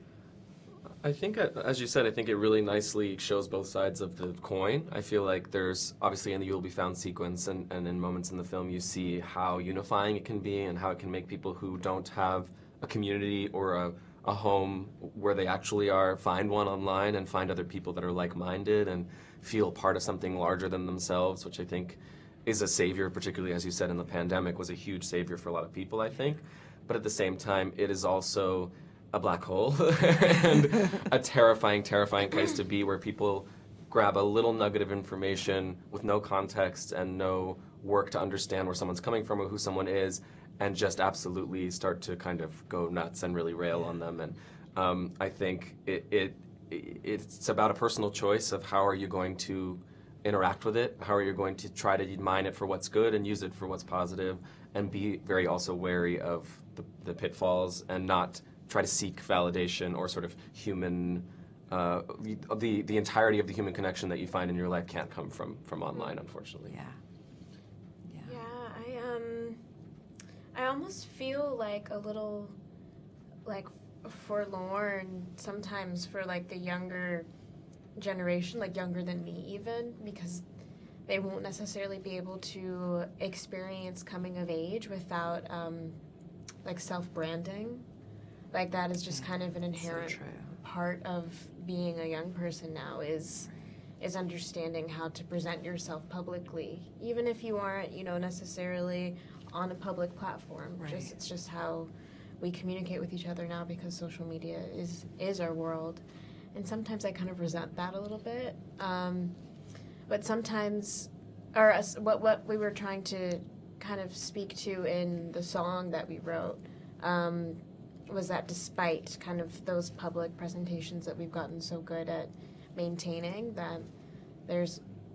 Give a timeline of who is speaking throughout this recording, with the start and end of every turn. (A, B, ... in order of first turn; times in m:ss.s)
0:01.0-1:06.8 A
1:06.6-1:07.0 B
1:08.1-1:08.4 B
1:08.2-1:09.6 C
1:10.5-1:12.5 C
1:13.4-1:17.3 C
1:18.0-1:20.4 C
1:21.1-1:26.0 C
1:26.6-1:27.8 C
1:28.5-1:33.5 C
1:29.1-1:30.6 B
1:34.0-1:49.4 C
1:40.8-1:41.1 B
1:50.1-2:03.9 C
2:04.5-2:04.8 C